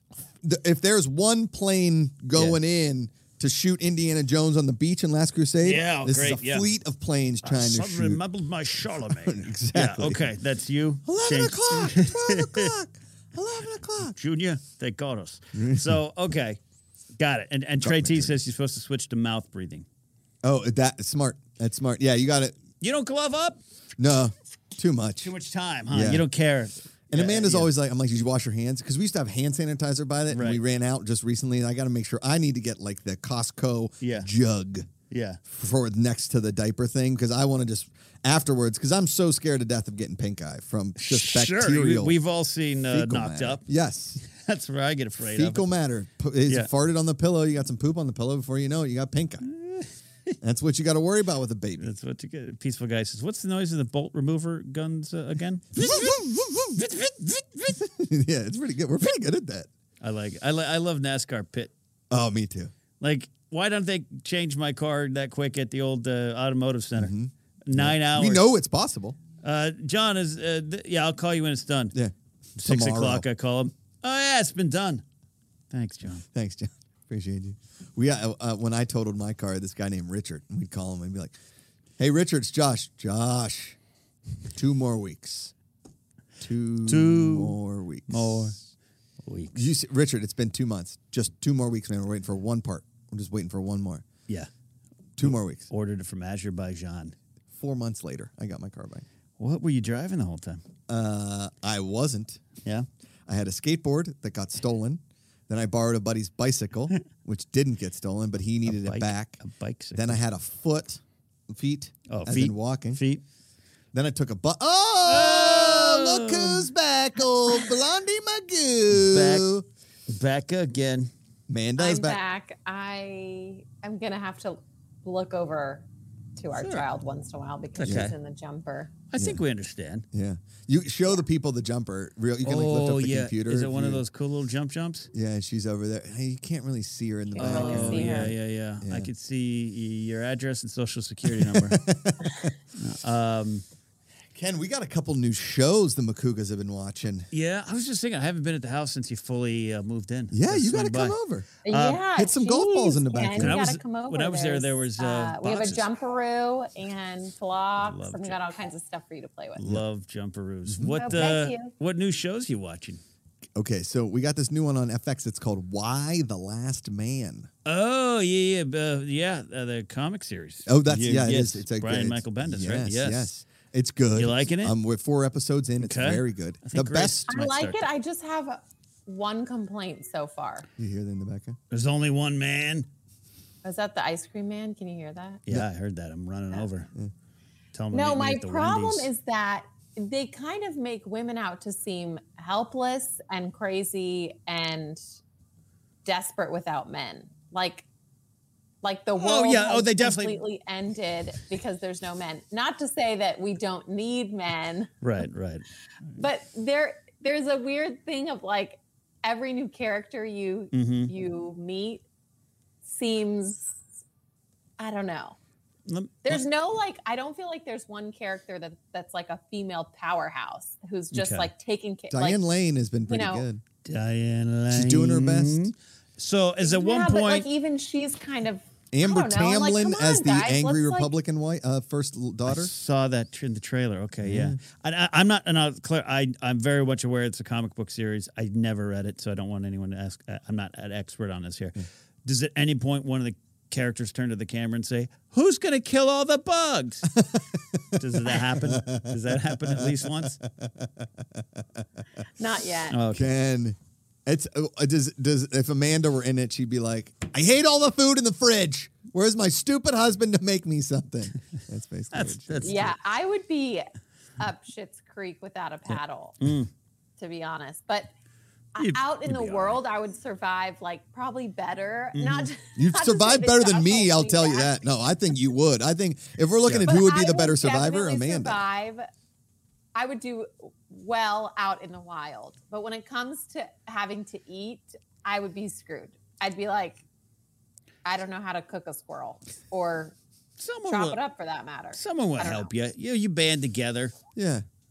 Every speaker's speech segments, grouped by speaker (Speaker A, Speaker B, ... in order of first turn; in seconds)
Speaker A: 0.4-8.2, 9.1-10.3, 11.1-14.2, 15.6-16.0, 17.8-18.3, 20.4-22.6, 24.0-25.3, 25.9-26.2, 27.1-34.9, 35.5-42.2, 42.9-44.2, 45.3-49.5, 50.4-51.9, 55.8-56.8, 57.7-59.7, 62.1-62.7, 67.0-69.2, 71.9-73.2, 76.3-81.3, 82.0-83.8, 84.5-85.5, 86.4-88.5, 89.5-94.0, 95.2-95.7, 97.6-99.0, 100.9-102.5, 103.3-109.4, 109.9-113.0, 113.9-119.6, 121.5-122.2, 127.9-128.1, 129.2-129.4, 130.1-134.0, 135.1-139.1, 141.3-142.5, 144.3-147.3, 150.3-151.5, 152.1-153.6, 160.7-161.3, 163.6-167.5, 170.7-177.3, 180.8-181.6, 222.1-223.6, 224.7-225.7, 228.9-232.7, 234.2-234.6, 247.1-251.8, 253.1-262.8, 272.8-278.6, 294.4-294.6
Speaker B: 2.3-2.6, 5.6-6.7, 7.4-12.7, 14.2-16.6, 17.2-19.9, 22.8-23.6, 25.2-27.7, 30.3-30.6, 34.0-34.3, 35.1-35.4, 41.0-43.6, 44.2-45.6, 49.5-49.9, 51.8-57.8, 60.0-61.7, 63.0-67.1, 67.6-68.5, 69.4-72.0, 72.6-75.0, 75.7-76.2, 86.9-87.6, 88.1-88.6, 89.2-89.7, 95.2-97.1, 99.4-100.6, 108.7-110.2, 112.1-113.2, 115.0-116.7, 118.9-119.5, 120.1-121.1, 126.6-126.9, 127.8-128.1, 129.1-130.1, 132.4-135.1, 137.4-141.8, 142.8-143.6, 147.3-152.0, 153.4-155.9, 157.8-158.4, 159.6-163.0, 167.6-173.3, 174.2-174.8, 175.8-177.8, 181.7-182.9, 185.5-186.9, 187.7-189.1, 199.2-200.4, 205.0-205.7, 210.7-211.1, 215.9-216.4, 221.1-221.5, 223.8-227.5, 232.5-247.1, 248.0-250.4, 252.9-253.3, 262.1-263.0, 266.4-266.7, 268.8-269.8, 272.1-272.5, 276.6-276.9, 290.6-291.2, 291.9-294.1
Speaker C: 121.8-125.8, 126.4-128.9, 137.3-138.3, 151.6-159.6, 161.0-161.7, 177.3-180.7, 183.6-185.4, 187.9-195.0, 196.1-197.9, 198.8-204.9, 206.2-212.0, 212.8-213.8, 214.8-215.4, 216.2-222.4, 223.1-223.5, 226.6-231.1, 252.4-253.0, 262.6-263.9, 264.4-266.4, 267.2-268.1, 268.8-274.8, 276.9-279.1, 279.9-287.0, 288.1-290.1, 290.9-292.7